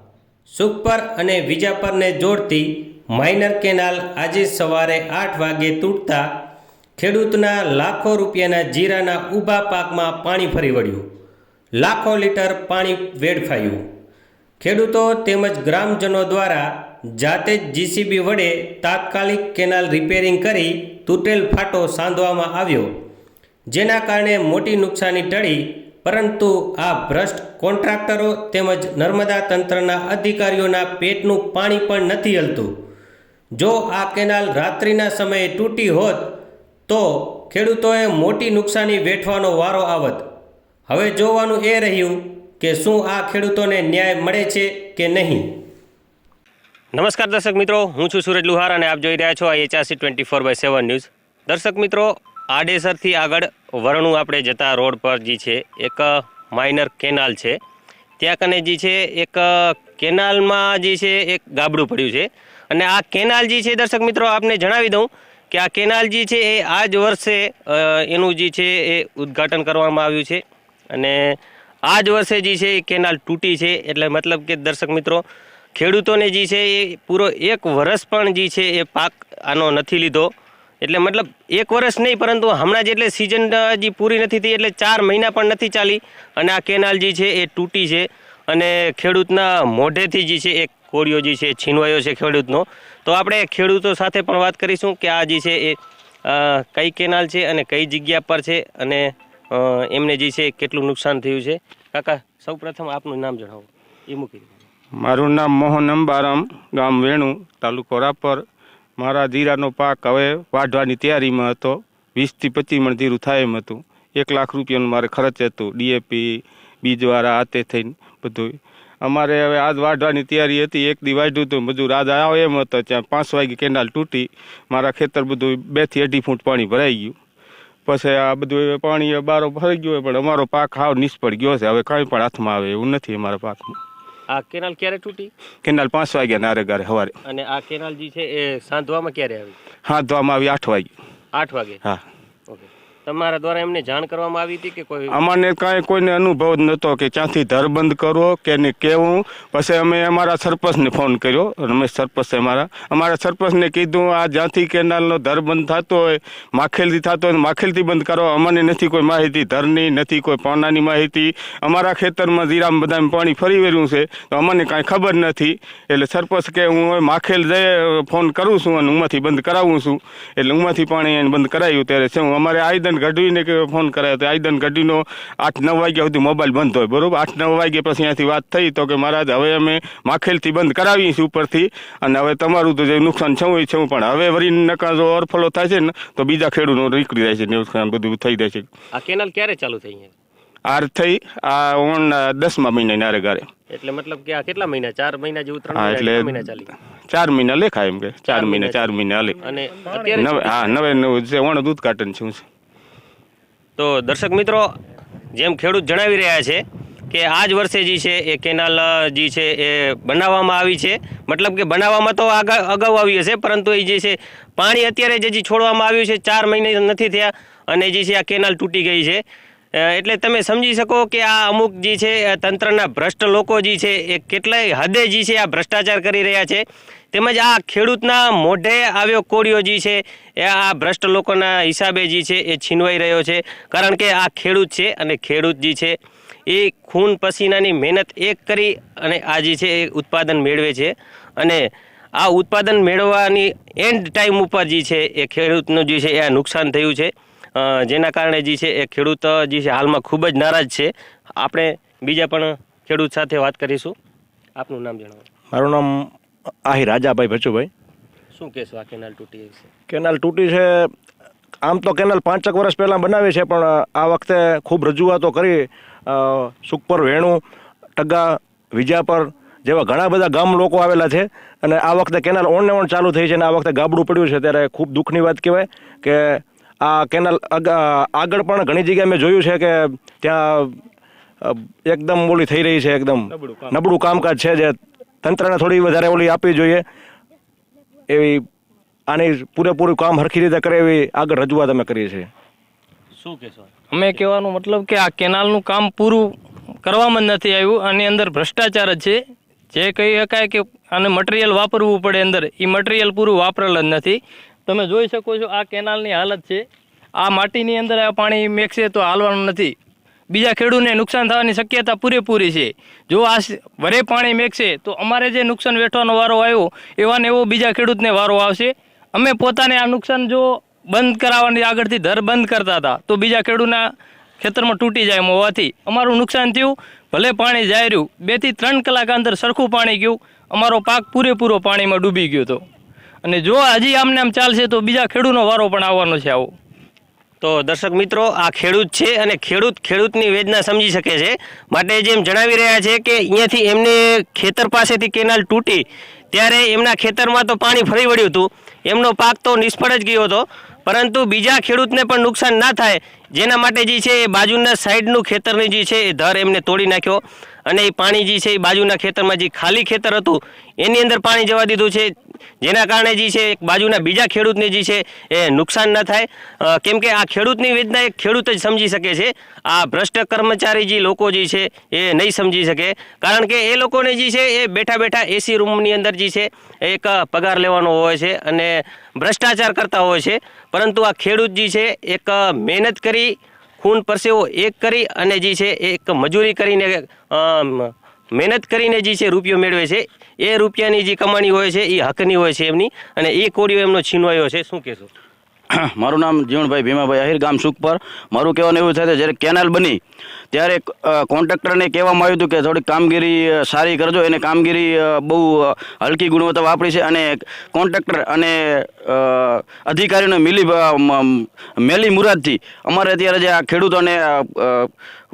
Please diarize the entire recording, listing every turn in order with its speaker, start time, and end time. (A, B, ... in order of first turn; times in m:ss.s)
0:00.5-0:06.3 A
0:07.0-0:11.0 A
0:11.8-0:13.8 A
0:14.6-0:22.9 A
0:23.7-0:32.7 A
0:33.6-0:36.3 A
0:36.9-0:40.3 A
0:40.9-0:45.5 A
0:46.9-0:57.6 A
0:58.2-1:15.2 A
1:15.8-1:20.3 A
1:20.8-1:44.6 A
1:45.0-1:48.4 B
1:49.0-2:07.2 B
2:07.9-2:13.8 B
2:14.3-2:15.3 A
2:15.6-2:17.2 B
2:17.3-2:19.6 A
2:19.8-2:20.9 B
2:21.3-2:21.8 A
2:22.5-2:25.2 A
2:25.1-3:08.7 B
3:08.9-3:10.1 A
3:10.6-3:13.5 B
3:13.7-3:16.7 A
3:15.8-3:16.6 B
3:17.1-3:19.4 B
3:18.3-3:20.8 A
3:20.1-3:22.4 B
3:23.8-3:24.7 A
3:25.4-3:39.2 A
3:39.8-3:56.0 A
3:56.5-4:01.6 A
4:02.2-4:14.0 A
4:14.6-4:15.2 A
4:15.5-4:16.1 C
4:16.7-4:17.7 C
4:18.3-4:19.7 A
4:19.9-4:20.9 C
4:21.6-4:27.4 C
4:28.0-4:40.8 C
4:41.4-4:46.8 C
4:48.1-4:48.4 C
4:49.1-4:52.3 C
4:53.2-4:53.7 A
4:53.9-4:56.3 D
4:56.8-4:59.2 D
4:59.7-5:06.6 D
5:07.2-5:09.8 D
5:10.3-5:23.9 D
5:24.4-5:32.6 D
5:33.2-5:36.5 D
5:37.4-6:35.1 A
6:35.7-6:40.0 E
6:40.5-6:54.9 E